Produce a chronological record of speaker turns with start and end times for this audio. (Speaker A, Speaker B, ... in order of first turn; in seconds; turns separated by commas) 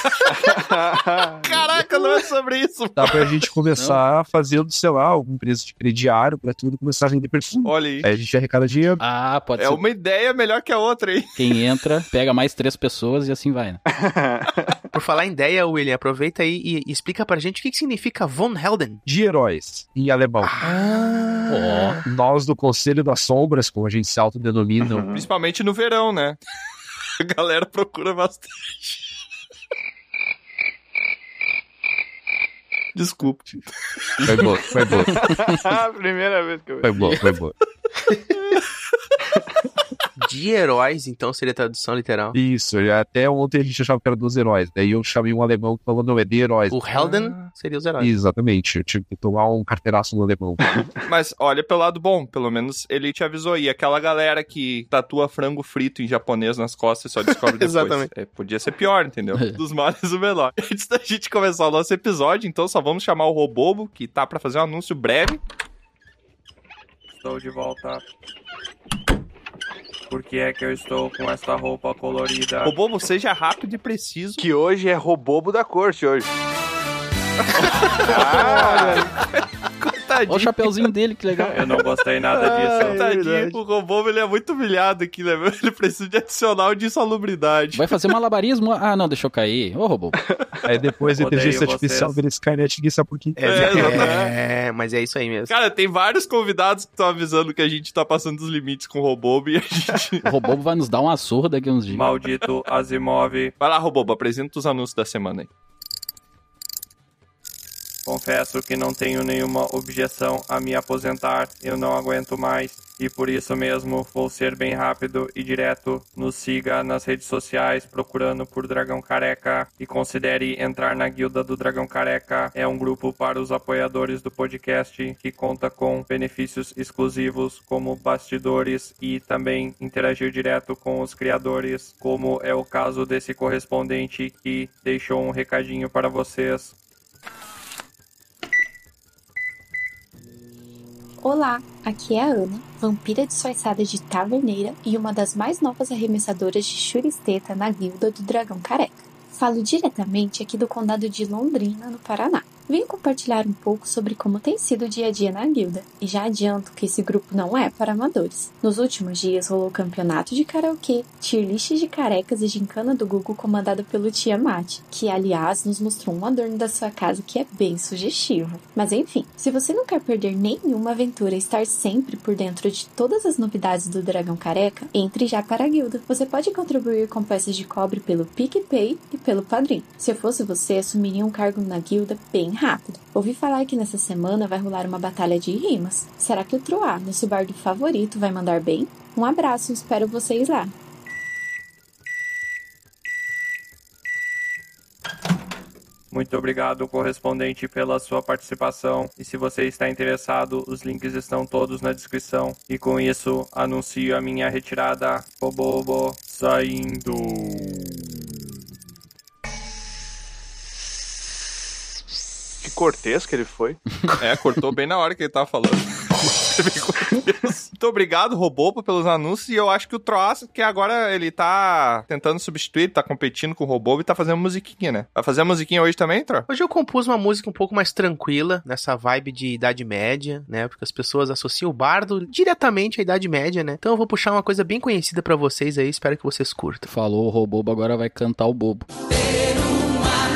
Speaker A: 0.3-1.8, Speaker B: 1.4-3.5, Speaker C: 3.0-9.0, Speaker D: 3.8-4.0, Speaker B: 7.7-8.1, Speaker D: 9.0-9.8, Speaker B: 9.6-11.4, Speaker D: 11.4-13.8, Speaker A: 13.9-14.7, Speaker E: 14.9-19.0, Speaker C: 19.1-20.6, Speaker E: 20.4-20.8, Speaker B: 20.6-22.0, Speaker D: 21.5-22.0, Speaker C: 22.1-25.1, Speaker A: 24.8-25.3, Speaker B: 25.1-26.4, Speaker B: 27.2-29.1, Speaker B: 33.0-33.7, Speaker C: 34.2-35.3, Speaker A: 35.1-37.2, Speaker C: 36.8-37.5, Speaker E: 40.2-42.4, Speaker C: 42.3-46.8, Speaker E: 46.7-48.1, Speaker B: 46.9-47.5, Speaker C: 48.0-50.9, Speaker B: 51.0-65.4, Speaker E: 57.4-58.1, Speaker F: 67.1-68.0, Speaker F: 70.1-72.8, Speaker B: 72.7-74.4, Speaker A: 74.4-76.3, Speaker B: 77.6-79.1, Speaker A: 78.0-79.0, Speaker E: 78.2-78.8, Speaker B: 79.8-80.9, Speaker D: 80.3-81.6, Speaker F: 81.5-83.0, Speaker B: 82.4-87.9, Speaker E: 82.5-83.6, Speaker D: 87.7-90.2, Speaker C: 90.7-94.1, Speaker F: 91.2-92.2, Speaker E: 93.4-95.5, Speaker B: 93.5-94.3, Speaker B: 95.5-100.2, Speaker D: 100.2-102.1, Speaker F: 101.9-103.5, Speaker B: 103.6-105.5, Speaker F: 108.1-136.7, Speaker G: 141.2-190.7, Speaker F: 196.1-207.6, Speaker A: 212.6-213.8, Speaker B: 214.2-226.5, Speaker E: 226.5-236.9, Speaker D: 236.9-238.9